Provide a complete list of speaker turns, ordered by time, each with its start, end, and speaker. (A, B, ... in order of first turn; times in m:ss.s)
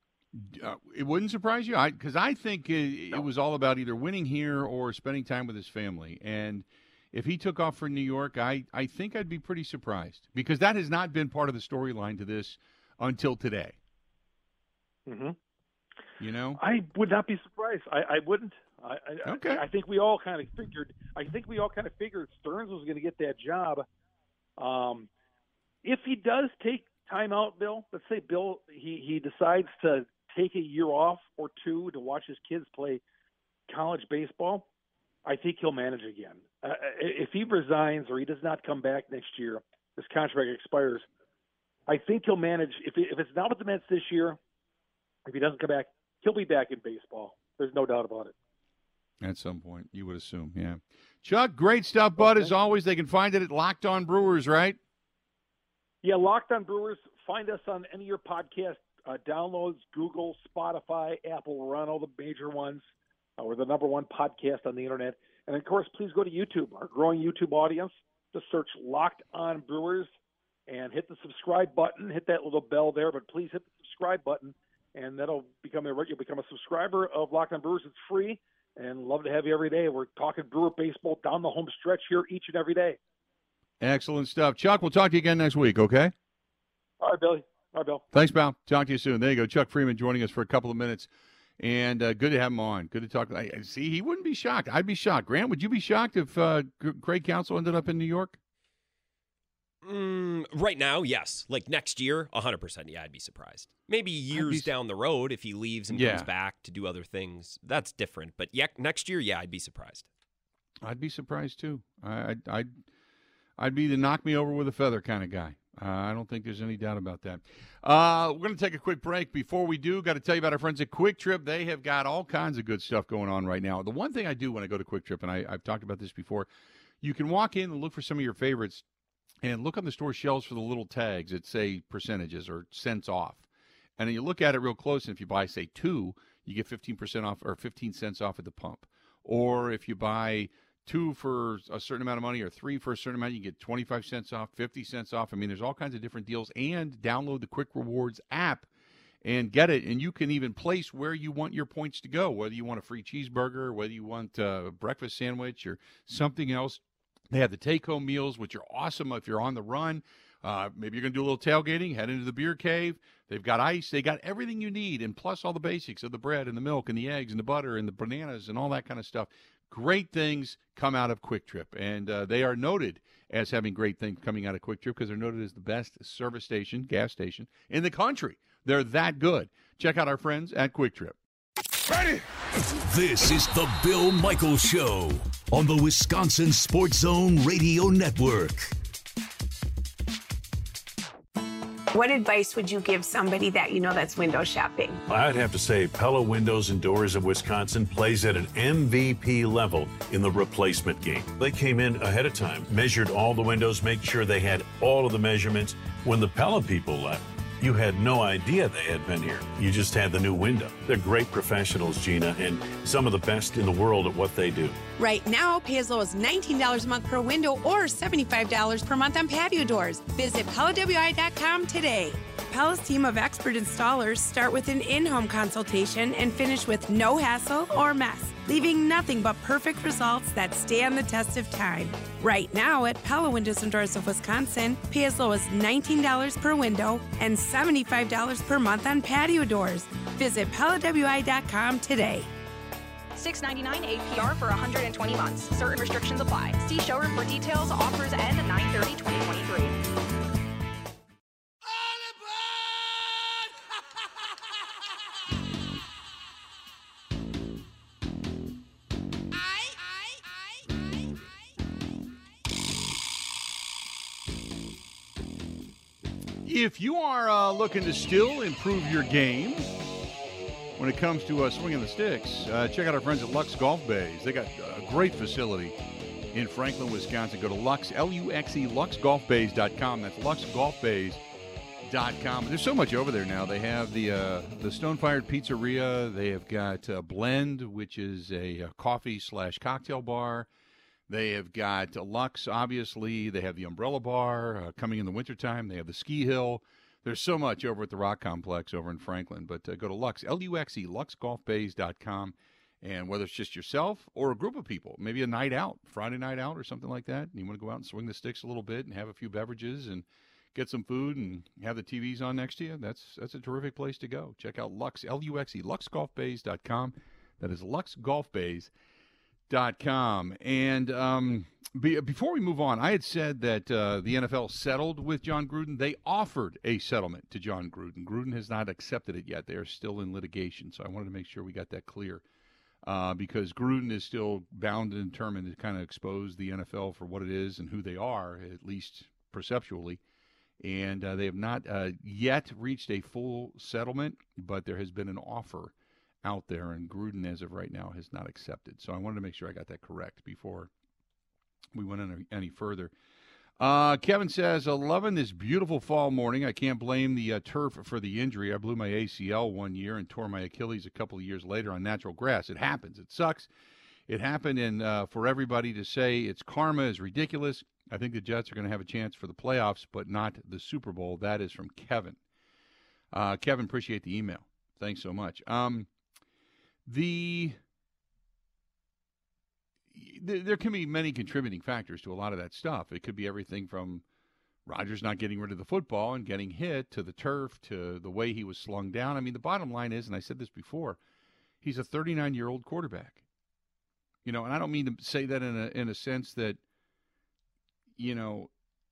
0:00.3-0:13.8 A
0:15.0-0:15.4 B
0:16.2-0:16.6 A
0:16.6-0:23.8 B
0:19.2-0:19.6 A
0:24.6-0:25.1 B
0:25.8-0:33.0 B
0:33.7-0:34.7 B
0:35.2-0:41.0 B
0:41.9-0:44.4 B
0:45.2-0:48.3 B
0:49.2-0:54.8 A
0:52.2-0:52.5 B
0:56.0-1:02.8 B
1:03.4-1:10.1 B
1:10.7-1:23.0 B
1:23.8-1:26.1 A
1:27.0-1:28.0 B
1:28.1-1:38.4 A
1:39.8-1:50.1 C
1:44.3-1:44.7 A
1:45.9-1:46.3 A
1:50.8-1:52.7 A
1:53.6-2:06.5 A
2:07.0-2:08.8 A
2:09.4-2:13.5 A
2:14.0-2:28.7 A
2:29.2-3:01.2 A
3:02.7-3:08.7 D
3:11.9-3:15.0 E
3:15.1-3:34.8 F
3:35.0-4:02.3 E
4:03.2-4:09.8 G
4:26.4-4:29.7 A
4:30.8-4:35.7 A
4:36.3-4:41.2 A
4:41.8-4:50.5 A
4:51.1-5:18.7 A
5:19.5-5:32.2 A
5:32.8-5:40.0 A
5:40.6-5:50.7 A
5:51.7-5:52.9 A
5:53.6-6:03.5 A
6:04.1-6:12.2 A
6:13.1-6:15.9 A
6:16.9-6:17.6 A
6:19.9-6:24.0 A
6:24.6-6:31.0 A
6:31.6-6:33.2 A
6:34.2-6:36.6 A
6:38.0-6:38.5 A